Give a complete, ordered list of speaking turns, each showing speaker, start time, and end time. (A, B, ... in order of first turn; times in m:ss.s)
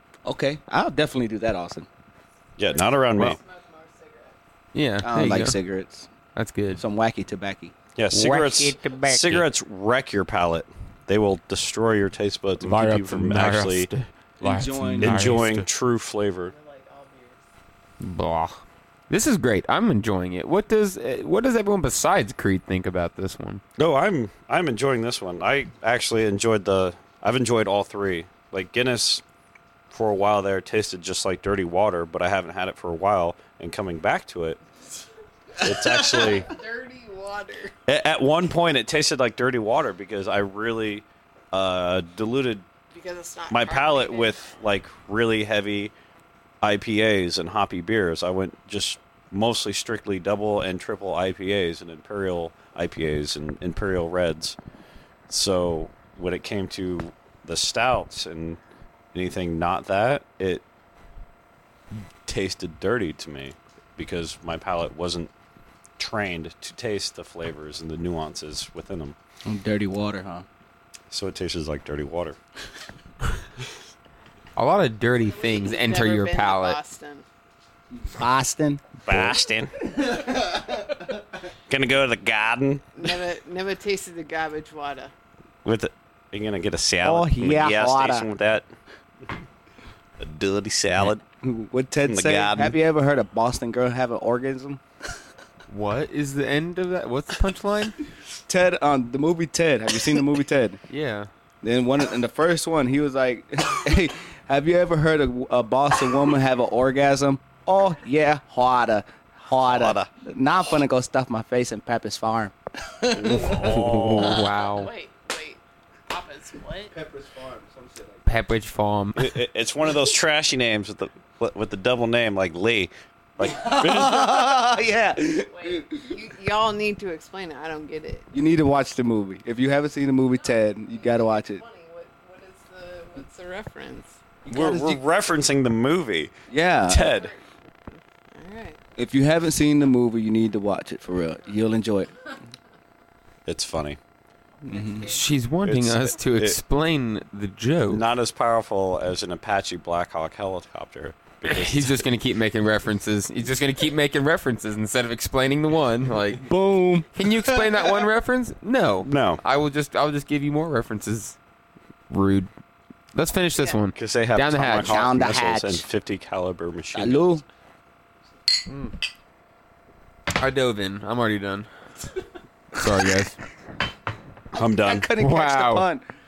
0:00.3-0:01.9 A
0:02.6-0:03.4 B
0:02.6-0:04.4 C
0:04.7-0:05.6 D
0:05.0-0:06.1 A
0:06.4-0:06.8 D
0:06.8-0:07.7 A
0:08.0-0:13.9 B
0:08.1-0:09.5 D
0:12.6-0:15.7 D
0:14.4-0:15.4 A
0:15.0-0:16.5 B
0:16.5-0:17.4 C
0:18.0-0:23.6 D
0:23.8-0:29.2 B
0:29.9-0:34.6 B
0:35.6-0:36.5 B
0:36.0-0:37.7 C
0:37.9-0:42.7 B
0:42.9-0:44.4 C
0:43.5-0:45.9 B
0:46.6-0:54.6 B
0:55.3-0:58.6 B
0:59.1-1:00.6 B
1:02.3-1:05.3 B
1:06.0-1:09.2 B
1:09.5-1:10.4 A
1:11.1-1:12.4 B
1:14.6-1:16.8 D
1:15.2-1:17.2 C
1:18.0-1:19.4 A
1:19.0-1:19.8 B
1:20.0-1:20.8 A
1:21.7-1:22.9 B
1:23.0-1:25.1 C
1:25.6-1:28.7 B
1:27.0-1:28.2 A
1:30.2-1:31.2 B
1:31.4-1:34.8 A
1:32.0-1:32.8 B
1:35.7-1:38.0 D
1:38.5-1:40.8 A
1:40.9-1:41.3 D
1:41.6-1:54.2 A
1:49.6-1:50.1 B
1:53.1-1:54.4 B
1:53.5-1:54.9 D
1:54.4-1:56.9 C
1:56.9-1:58.2 A
1:58.3-1:59.4 D
1:59.2-2:04.6 B
2:03.4-2:05.9 A
2:05.3-2:08.3 C
2:08.3-2:11.6 A
2:10.8-2:14.2 C
2:14.4-2:15.0 A
2:14.5-2:16.3 B
2:16.5-2:17.1 A
2:16.9-2:17.3 B
2:16.9-2:17.5 C
2:18.3-2:18.8 C
2:19.0-2:22.1 A
2:23.5-2:24.0 B
2:24.6-2:25.1 A
2:24.7-2:25.2 C
2:25.0-2:28.0 D
2:25.6-2:26.6 B
2:27.9-2:32.0 B
2:31.4-2:36.5 D
2:36.4-2:38.0 A
2:37.1-2:41.4 D
2:39.0-2:39.4 B
2:42.1-2:42.5 D
2:43.1-2:45.1 D
2:44.0-2:47.3 B
2:44.8-2:45.8 A
2:46.9-2:47.4 A
2:48.7-2:48.9 D
2:50.3-2:51.7 D
2:52.7-2:53.4 D
2:54.5-2:55.1 B
2:54.6-2:56.0 A
2:55.2-2:55.9 D